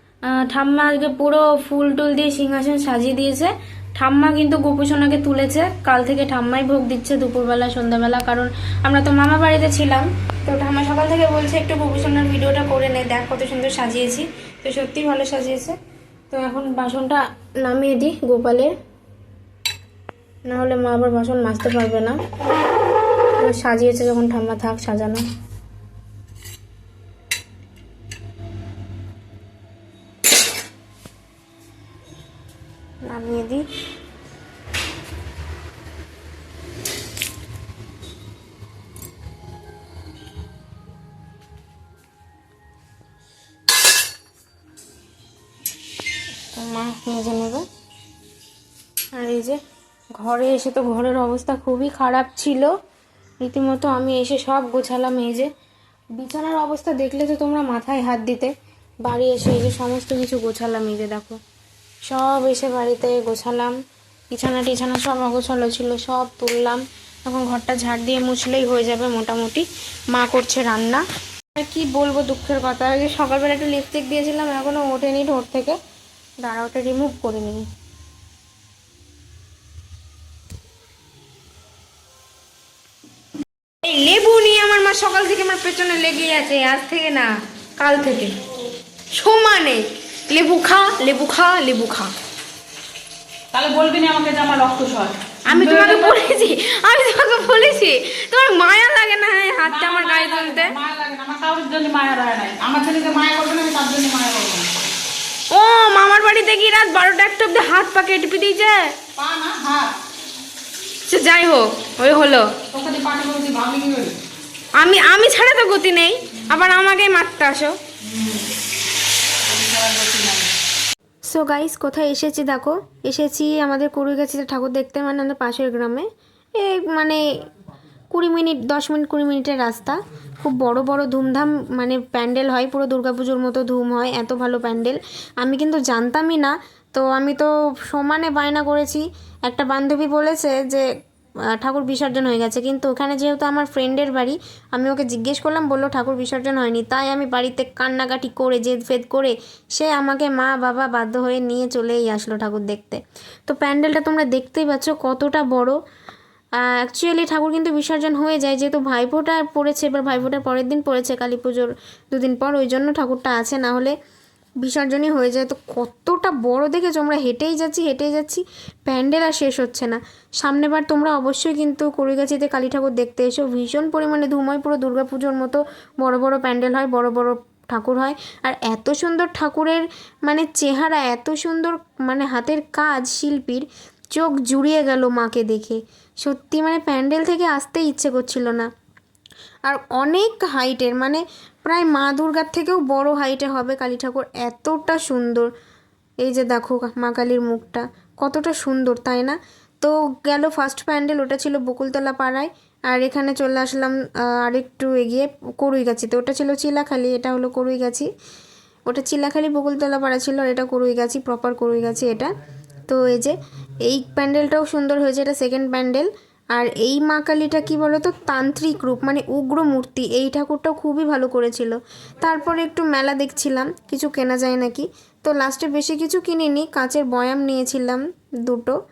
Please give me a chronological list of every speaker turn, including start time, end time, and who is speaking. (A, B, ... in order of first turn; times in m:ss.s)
0:00.3-0:15.8 A
0:16.3-0:18.8 A
0:20.5-0:22.2 A
0:23.4-0:25.2 A
0:33.0-0:33.6 A
0:46.6-0:47.6 A
0:49.1-0:49.6 A
0:50.2-0:52.7 A
0:53.4-0:55.5 A
0:56.2-0:58.5 A
0:59.0-1:01.4 A
1:02.0-1:03.8 A
1:04.3-1:15.8 A
1:16.4-1:17.6 A
1:23.8-1:28.4 A
1:29.1-1:32.1 A
1:33.5-1:36.3 B
1:35.5-1:40.8 A
1:39.6-1:44.7 B
1:45.5-1:49.0 A
1:49.2-1:49.9 B
1:51.1-1:52.6 A
1:52.7-1:54.2 B
1:54.7-1:57.8 A
1:58.0-1:58.4 B
1:59.4-2:00.5 B
2:01.2-2:07.4 A
2:08.1-2:20.8 A
2:21.5-2:35.8 A
2:36.6-2:44.0 A
2:44.6-3:08.7 A
3:09.6-3:15.5 A
3:16.2-3:28.1 A
3:28.9-3:32.3 A
3:32.9-3:48.8 A